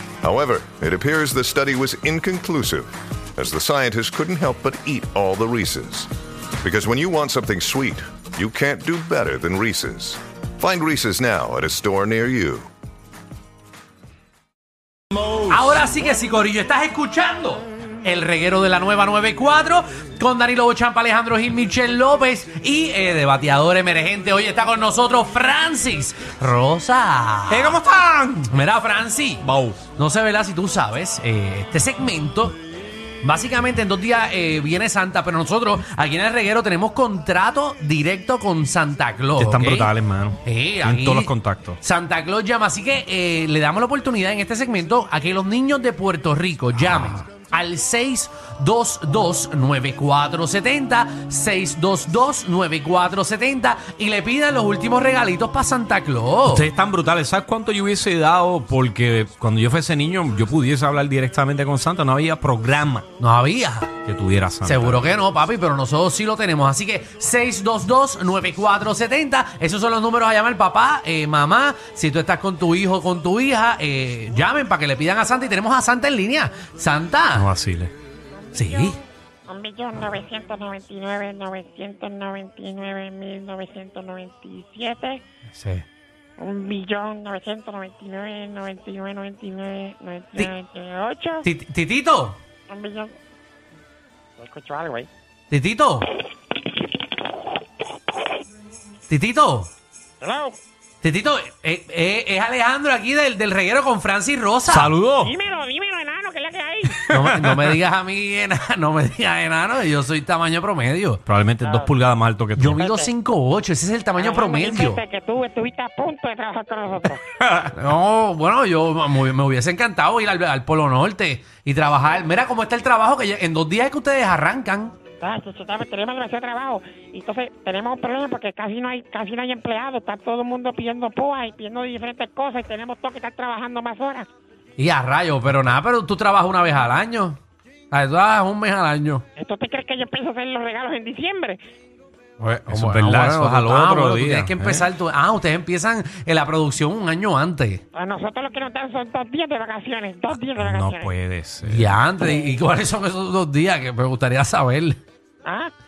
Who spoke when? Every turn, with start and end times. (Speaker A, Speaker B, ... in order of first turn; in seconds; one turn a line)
Speaker A: 0.2-6.1
Speaker A: 6.6-12.7
Speaker B: 15.4-27.8
Speaker C: 27.5-28.5
Speaker B: 28.5-32.6
Speaker C: 29.4-29.8
Speaker B: 33.2-39.9
Speaker C: 39.4-41.8
Speaker B: 40.4-56.7
Speaker C: 46.9-47.2
Speaker C: 56.5-63.0
Speaker B: 63.2-63.9
Speaker C: 64.0-65.0
Speaker B: 64.6-77.5
Speaker C: 77.4-77.9
Speaker B: 78.5-79.0
Speaker D: 78.6-85.2
Speaker B: 85.5-85.8
Speaker D: 86.4-91.5
Speaker B: 91.4-92.4
Speaker D: 92.7-93.2
Speaker D: 94.4-95.1
Speaker B: 95.5-96.1
Speaker B: 99.1-99.7
Speaker D: 100.2-100.6
Speaker B: 101.0-104.9
Speaker C: 104.7-105.3
Speaker D: 105.2-107.0
Speaker C: 107.0-107.7
Speaker B: 107.1-111.2
Speaker C: 111.3-112.8
Speaker D: 111.6-111.9
Speaker B: 112.6-115.0
Speaker D: 112.7-113.1
Speaker D: 114.2-117.2
Speaker B: 117.7-125.0
Speaker D: 125.2-134.3
Speaker B: 134.8-137.4
Speaker B: 137.9-139.2
Speaker D: 139.4-141.6
Speaker B: 142.4-147.8
Speaker C: 142.7-144.9
Speaker D: 147.9-151.1
Speaker C: 150.6-152.0
Speaker B: 151.6-155.0
Speaker D: 155.4-155.7